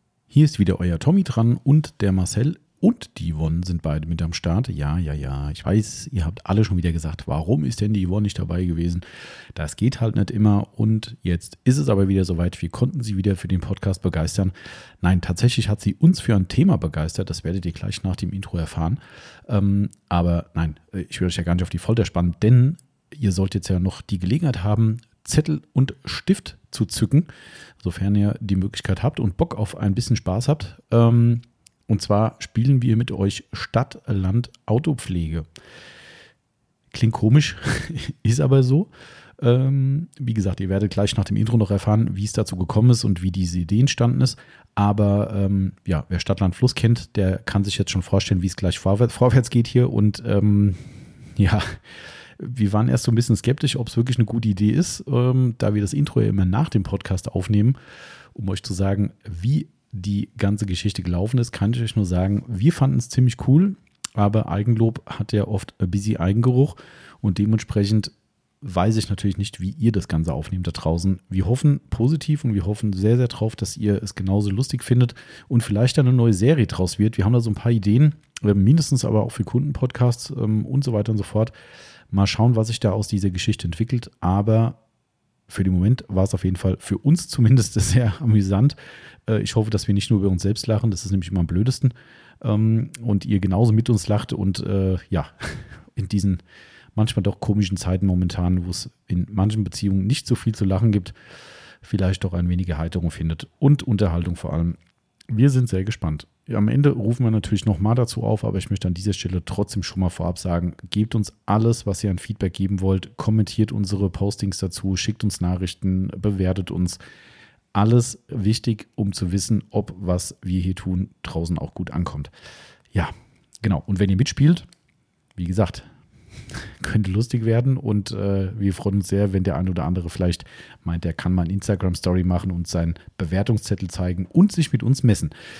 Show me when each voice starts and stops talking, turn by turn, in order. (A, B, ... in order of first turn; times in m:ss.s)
0:00.3-0:09.0 A
0:09.5-0:27.3 A
0:27.8-0:35.5 A
0:36.9-0:51.8 A
0:52.4-0:57.8 A
0:58.4-1:21.5 A
1:22.1-1:24.8 A
1:25.5-1:36.4 A
1:37.0-1:41.2 A
1:41.8-1:44.8 A
1:45.3-1:57.0 A
1:57.7-2:02.3 A
2:02.9-2:04.7 A
2:05.4-2:05.9 A
2:06.5-2:15.3 A